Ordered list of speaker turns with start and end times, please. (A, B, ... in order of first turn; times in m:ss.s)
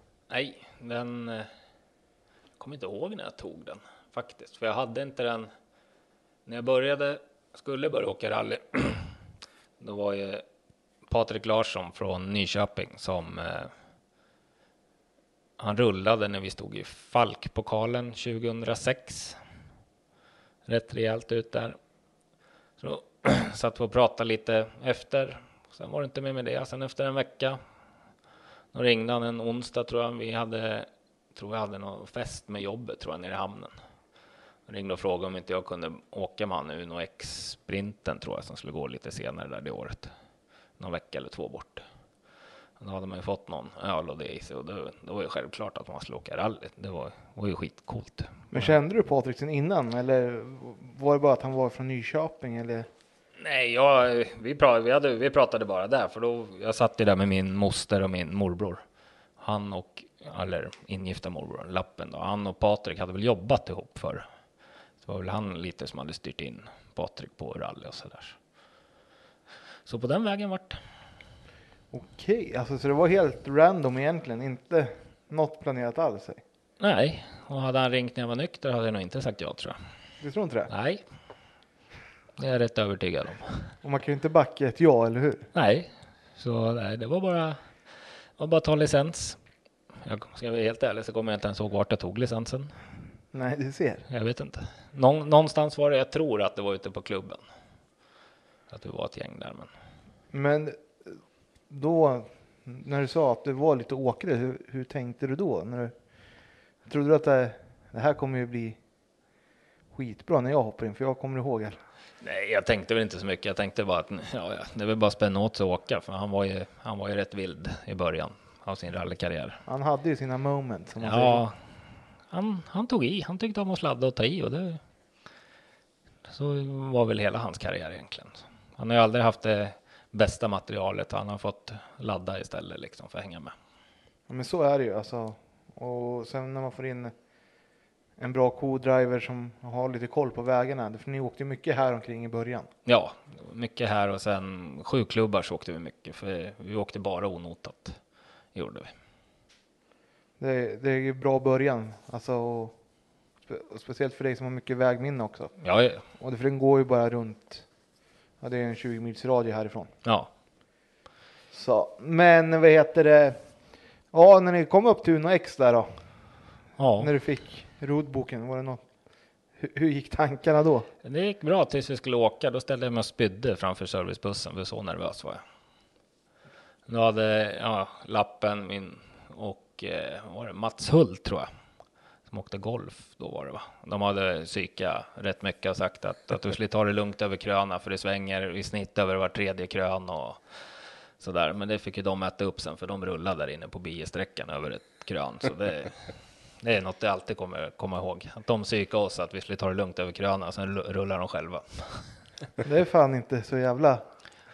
0:00.3-0:01.5 A
0:02.6-0:05.5 A
0:06.5-0:09.1 A
0:09.8-0:10.4 A
0:11.1-0:13.7 A
0:15.6-0:19.4 A
0:20.7-0:21.8 A
0:22.8-0:27.6 A
0:28.7-0:33.8 A
0:34.7-0:40.1 A
0:40.8-0:41.8 A
0:42.8-0:48.7 A
0:48.5-0:52.9 B
0:53.4-0:58.8 A
0:59.4-1:04.2 A
1:05.0-1:08.4 A
1:09.9-1:10.8 A
1:11.9-1:16.4 B
1:16.8-1:19.8 A
1:20.2-1:20.7 B
1:20.7-1:21.0 A
1:22.4-1:23.7 A
1:23.8-1:25.5 B
1:25.5-1:27.7 A
1:28.4-1:29.4 A
1:30.0-1:32.7 A
1:33.3-1:34.0 B
1:34.1-1:37.4 A
1:38.7-1:39.7 A
1:40.3-1:45.9 B
1:46.9-1:48.8 B
1:49.9-1:51.8 B
1:52.2-1:59.6 A
1:59.7-2:01.4 B
2:01.0-2:01.6 A
2:02.3-2:04.8 A
2:06.3-2:13.5 A
2:14.3-2:17.1 B
2:18.2-2:22.7 B
2:22.9-2:28.0 A
2:28.5-2:28.9 A
2:30.4-2:32.8 B
2:33.5-2:35.5 B
2:35.6-2:36.0 A
2:36.2-2:37.6 B
2:38.4-2:39.9 B
2:40.0-2:40.3 A
2:41.5-2:43.4 B
2:44.1-2:46.0 B
2:46.8-2:47.1 A
2:47.0-2:48.8 B
2:49.6-2:50.9 B
2:51.0-2:55.4 A
2:56.9-3:01.5 A
3:02.3-3:22.1 A
3:22.6-3:24.0 B